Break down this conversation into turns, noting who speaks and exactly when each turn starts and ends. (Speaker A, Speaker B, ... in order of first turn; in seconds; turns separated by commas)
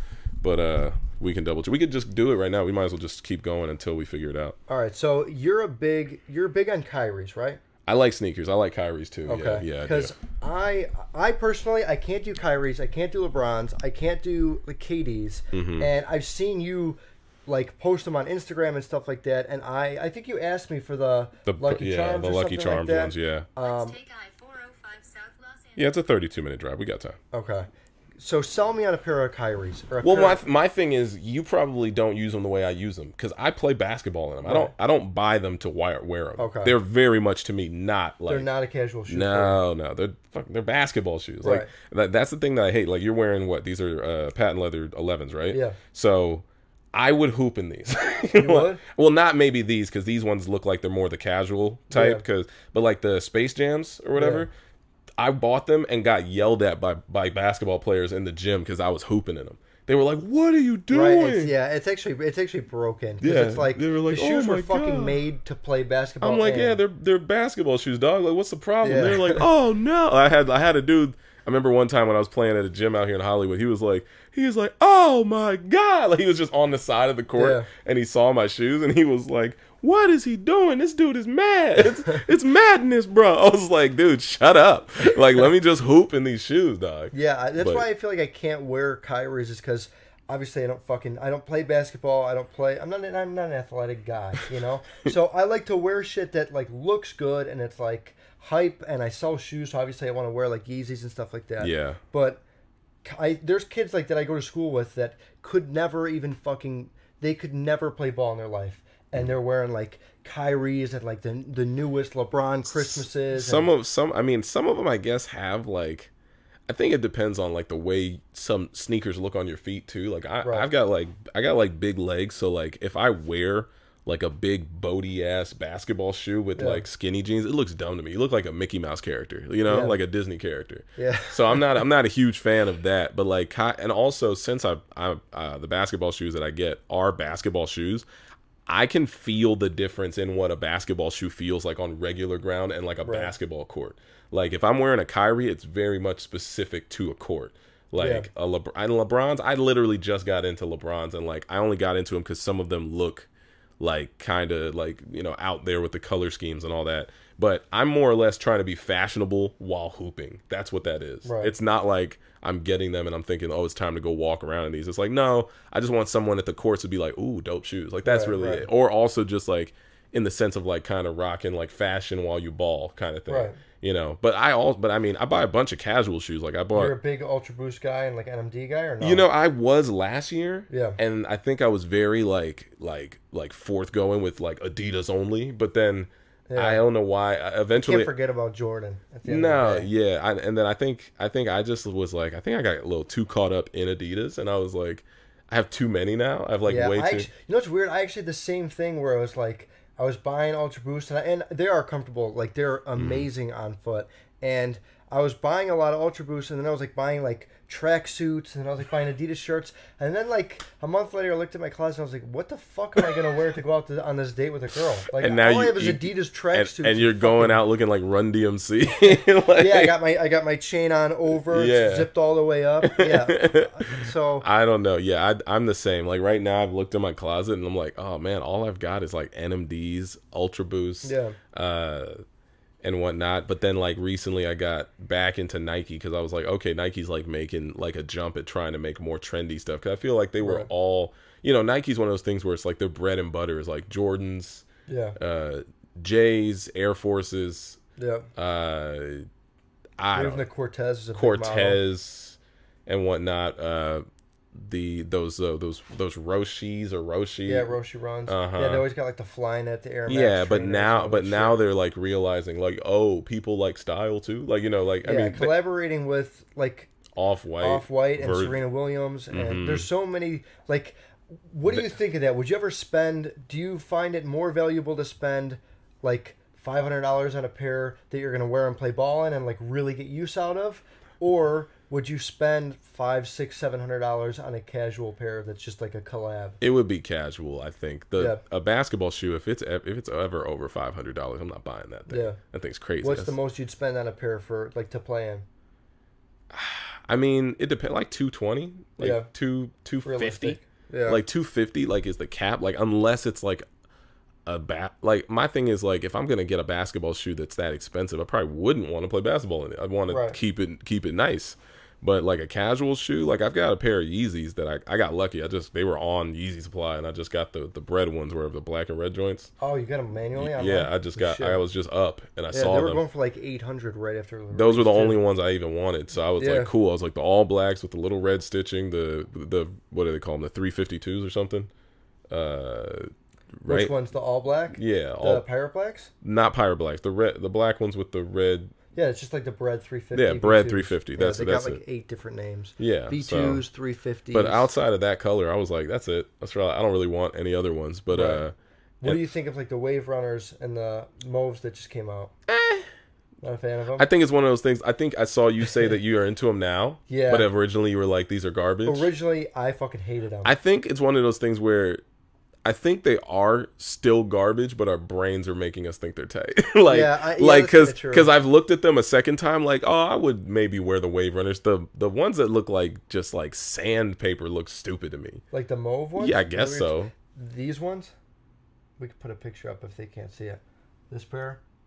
Speaker A: 0.4-4.5, Speaker B: 4.7-7.6, Speaker A: 7.9-10.1, Speaker B: 9.2-24.0, Speaker A: 15.5-15.9, Speaker A: 21.5-23.5, Speaker C: 23.6-25.9, Speaker A: 25.8-27.2, Speaker B: 27.3-30.4, Speaker A: 30.0-38.5, Speaker B: 34.4-34.7, Speaker B: 36.4-36.7, Speaker B: 38.3-39.6, Speaker A: 39.1-54.5, Speaker B: 41.4-41.7, Speaker B: 45.5-45.8, Speaker B: 48.3-48.8, Speaker B: 51.9-52.2, Speaker B: 54.1-54.5, Speaker A: 55.2-61.5, Speaker B: 60.9-66.8, Speaker A: 63.2-65.2, Speaker A: 66.2-87.8, Speaker B: 68.8-69.4, Speaker B: 77.3-77.7, Speaker B: 87.1-102.4, Speaker A: 101.6-102.0, Speaker B: 103.0-113.7, Speaker A: 112.6-116.1, Speaker A: 116.7-138.1, Speaker B: 126.5-126.8, Speaker B: 129.7-129.9, Speaker B: 131.0-131.6, Speaker A: 138.7-153.3, Speaker B: 143.0-143.3, Speaker B: 148.0-148.3, Speaker A: 153.8-177.0, Speaker B: 161.2-161.5, Speaker B: 168.0-168.7, Speaker B: 173.3-173.6, Speaker B: 176.7-179.2, Speaker A: 179.0-188.1, Speaker B: 180.7-181.0, Speaker B: 186.5-186.8, Speaker B: 187.8-189.9, Speaker A: 189.2-197.3, Speaker B: 196.7-217.6, Speaker A: 202.9-203.3, Speaker A: 215.1-219.9, Speaker B: 219.1-224.4, Speaker A: 221.3-222.1, Speaker A: 222.8-232.2, Speaker B: 231.0-231.4, Speaker A: 232.8-244.6, Speaker B: 240.4-240.7, Speaker B: 244.9-245.2, Speaker A: 245.2-247.8, Speaker B: 248.0-248.3, Speaker A: 248.3-249.3, Speaker A: 250.0-250.4, Speaker B: 250.1-251.8, Speaker A: 251.1-257.7, Speaker B: 257.4-261.6, Speaker A: 258.3-258.9, Speaker A: 260.1-265.5, Speaker B: 265.0-266.9, Speaker A: 267.1-268.6, Speaker B: 267.6-286.6, Speaker A: 269.3-269.9, Speaker A: 286.6-293.4, Speaker B: 292.1-292.4, Speaker B: 293.0-295.4, Speaker A: 296.5-303.6, Speaker B: 299.0-299.3, Speaker B: 300.0-301.2, Speaker A: 304.4-319.5, Speaker B: 310.1-310.4, Speaker B: 319.6-321.6, Speaker A: 320.3-323.0, Speaker B: 322.5-325.2, Speaker A: 324.5-331.7, Speaker B: 326.4-326.7, Speaker A: 332.3-333.9, Speaker B: 333.7-336.1, Speaker A: 334.7-335.4, Speaker A: 336.2-338.7, Speaker B: 338.9-344.7, Speaker A: 340.1-341.8, Speaker A: 342.8-343.6, Speaker A: 344.3-349.2, Speaker B: 348.1-348.4, Speaker B: 349.0-352.3, Speaker A: 352.5-352.9, Speaker B: 353.4-354.0, Speaker A: 354.0-359.1, Speaker B: 357.1-357.5, Speaker B: 358.8-360.5, Speaker A: 360.4-362.0, Speaker A: 362.6-375.4, Speaker B: 366.9-368.3, Speaker B: 375.5-378.1, Speaker A: 376.2-377.1, Speaker B: 379.0-381.6